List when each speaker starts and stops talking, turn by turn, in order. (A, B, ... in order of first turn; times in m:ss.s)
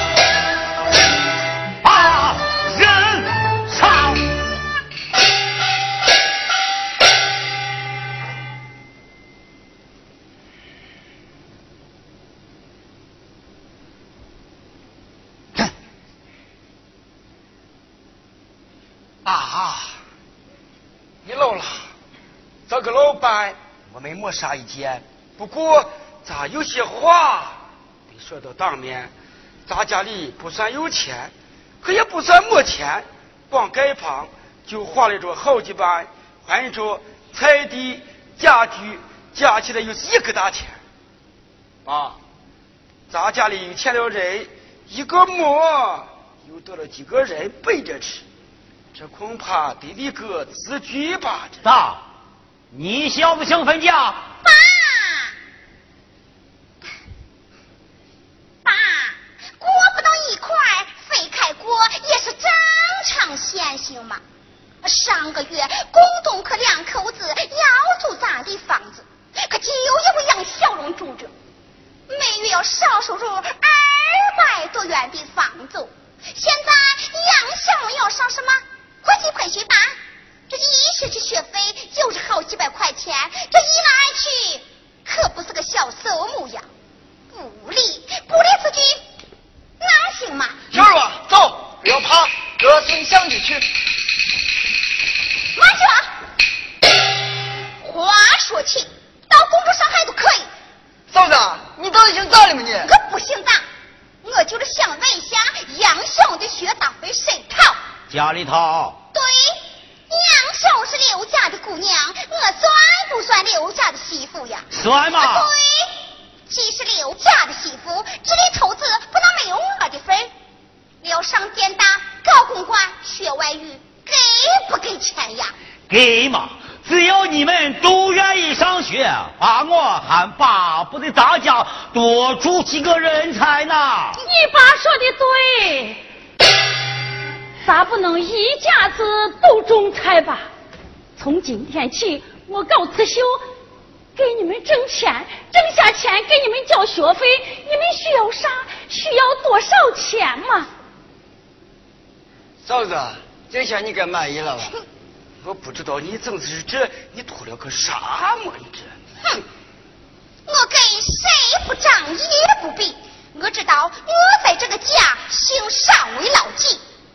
0:01.8-0:04.3 A
0:19.2-0:19.9 B
0:21.2-0:21.9 B
0:22.7-0:29.1 B
0:29.6-0:40.8 B
0:41.8-0:42.2 B
0:43.1-0:48.2 B
0:48.9-0:51.6 B
0:51.6-0:52.0 A
0:52.7-0:54.2 A
0:54.4-0:55.3 C
0:58.6-1:04.2 C
1:04.8-1:11.3 C
1:12.1-1:20.0 C
1:20.5-1:26.6 C
1:27.3-1:29.0 C
1:29.8-1:30.6 C
1:30.7-1:33.6 D
1:35.5-1:36.1 C
1:37.8-1:40.5 C
1:41.1-1:42.9 D
1:42.8-1:43.6 C
1:44.2-1:47.8 C
1:48.1-1:49.0 A
1:49.1-1:55.9 C
1:54.7-1:55.5 A
1:56.5-2:00.3 C
2:01.0-2:05.5 C
2:05.9-2:14.2 A
2:14.2-2:16.0 E
2:17.6-2:20.5 E
2:21.2-2:23.4 E
2:24.2-2:30.7 E
2:32.6-2:34.8 D
2:35.4-2:38.9 B
2:40.4-2:46.8 C